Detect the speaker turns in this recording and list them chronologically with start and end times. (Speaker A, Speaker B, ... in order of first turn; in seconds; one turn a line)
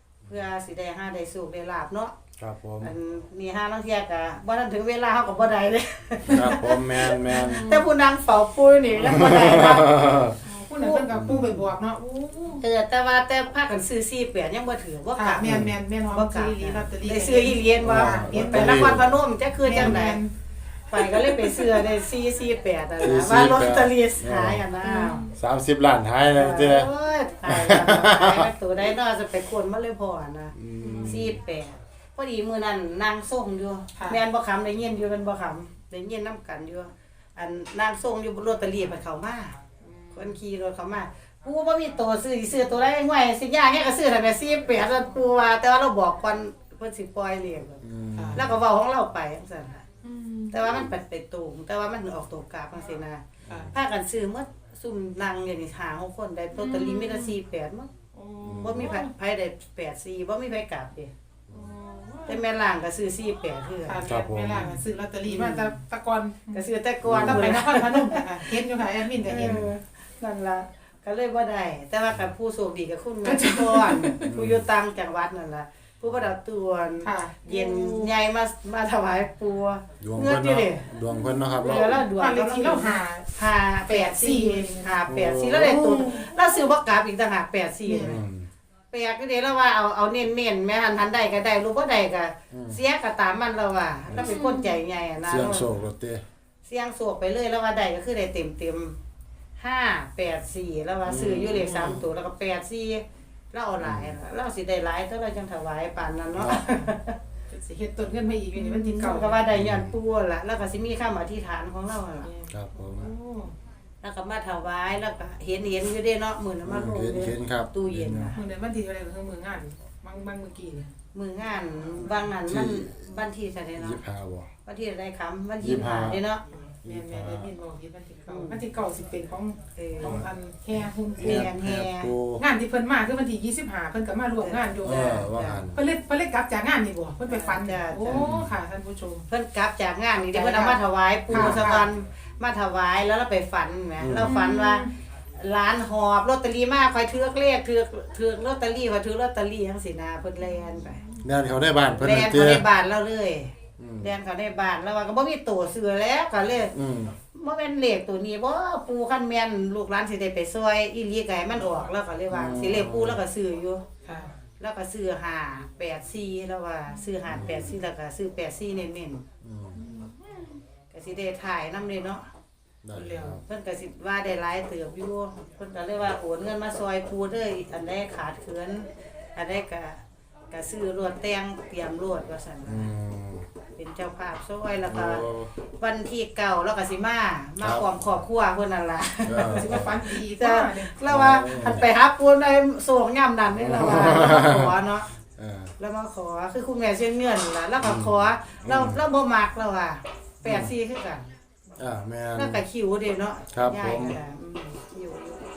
Speaker A: 0.3-2.1
Speaker B: 2.4-2.9
Speaker A: 2.8-10.0
Speaker B: 6.3-7.7
Speaker C: 7.3-7.9
Speaker B: 9.0-10.4
Speaker C: 10.4-12.6
Speaker A: 10.8-11.7
Speaker B: 11.1-11.4
Speaker A: 12.6-20.2
Speaker C: 15.2-19.0
Speaker B: 15.4-15.7
Speaker B: 17.8-19.1
Speaker C: 19.6-20.3
Speaker B: 19.7-19.9
Speaker A: 20.9-25.2
Speaker C: 20.9-21.9
Speaker B: 23.0-24.6
Speaker C: 24.8-25.3
Speaker B: 25.4-26.9
Speaker A: 26.4-39.6
Speaker B: 27.4-28.5
Speaker B: 30.5-31.4
Speaker C: 30.8-31.2
Speaker C: 34.0-34.2
Speaker C: 39.8-40.4
Speaker A: 40.1-47.8
Speaker B: 47.8-48.5
Speaker C: 48.1-48.4
Speaker A: 48.3-49.8
Speaker C: 50.0-50.6
Speaker A: 50.5-57.9
Speaker B: 53.5-53.8
Speaker C: 56.6-57.4
Speaker C: 58.1-59.1
Speaker B: 58.4-58.9
Speaker A: 58.6-61.1
Speaker C: 61.5-62.4
Speaker A: 62.3-64.0
Speaker C: 63.9-69.6
Speaker B: 64.0-64.8
Speaker A: 65.3-65.8
Speaker A: 66.5-68.7
Speaker B: 67.0-67.6
Speaker B: 69.2-69.7
Speaker A: 69.2-80.9
Speaker C: 73.2-74.2
Speaker B: 74.2-74.7
Speaker C: 77.0-78.1
Speaker B: 80.0-82.0
Speaker C: 81.1-83.3
Speaker A: 81.6-88.2
Speaker C: 83.9-85.0
Speaker B: 85.1-86.2
Speaker C: 87.9-88.2
Speaker B: 88.0-88.5
Speaker A: 88.9-95.7
Speaker B: 92.5-92.8
Speaker B: 94.1-94.4
Speaker C: 94.2-94.8
Speaker B: 95.3-96.2
Speaker A: 96.6-99.0
Speaker A: 99.6-107.2
Speaker B: 101.1-102.0
Speaker B: 103.8-104.2
Speaker B: 106.3-106.6
Speaker C: 107.5-109.4
Speaker A: 108.5-112.3
Speaker B: 109.5-109.9
Speaker C: 112.2-113.5
Speaker B: 112.5-113.1
Speaker A: 114.0-118.4
Speaker B: 116.7-118.3
Speaker C: 118.3-120.9
Speaker A: 121.1-124.0
Speaker B: 122.5-123.1
Speaker B: 123.8-124.5
Speaker A: 124.7-126.4
Speaker B: 125.6-126.2
Speaker C: 126.5-131.5
Speaker B: 126.8-127.5
Speaker A: 128.3-128.6
Speaker A: 129.8-130.3
Speaker A: 131.2-132.1
Speaker B: 131.2-132.4
Speaker C: 132.4-139.3
Speaker A: 134.4-135.6
Speaker B: 134.8-135.8
Speaker A: 137.3-138.3
Speaker B: 138.1-138.6
Speaker A: 139.3-151.0
Speaker C: 140.2-141.9
Speaker B: 141.3-141.6
Speaker B: 144.0-144.3
Speaker C: 144.2-144.9
Speaker C: 150.8-151.1
Speaker B: 151.2-152.6
Speaker A: 152.0-156.7
Speaker B: 153.8-154.1
Speaker B: 156.7-157.2
Speaker A: 157.3-163.8
Speaker B: 162.3-163.2
Speaker C: 164.0-164.4
Speaker A: 164.6-169.2
Speaker B: 167.3-167.8
Speaker B: 169.4-169.8
Speaker C: 169.8-170.4
Speaker A: 170.9-172.2
Speaker B: 172.8-173.4
Speaker C: 172.9-173.4
Speaker A: 173.4-180.0
Speaker A: 180.5-182.9
Speaker B: 182.7-183.5
Speaker A: 183.8-185.2
Speaker B: 184.9-185.5
Speaker A: 185.8-195.1
Speaker B: 189.3-189.9
Speaker C: 189.4-191.0
Speaker B: 191.1-191.9
Speaker B: 193.6-194.7
Speaker B: 195.4-195.7
Speaker A: 195.8-201.3
Speaker B: 197.8-199.0
Speaker B: 200.4-200.7
Speaker B: 201.8-202.6
Speaker A: 202.3-205.5
Speaker B: 203.5-204.2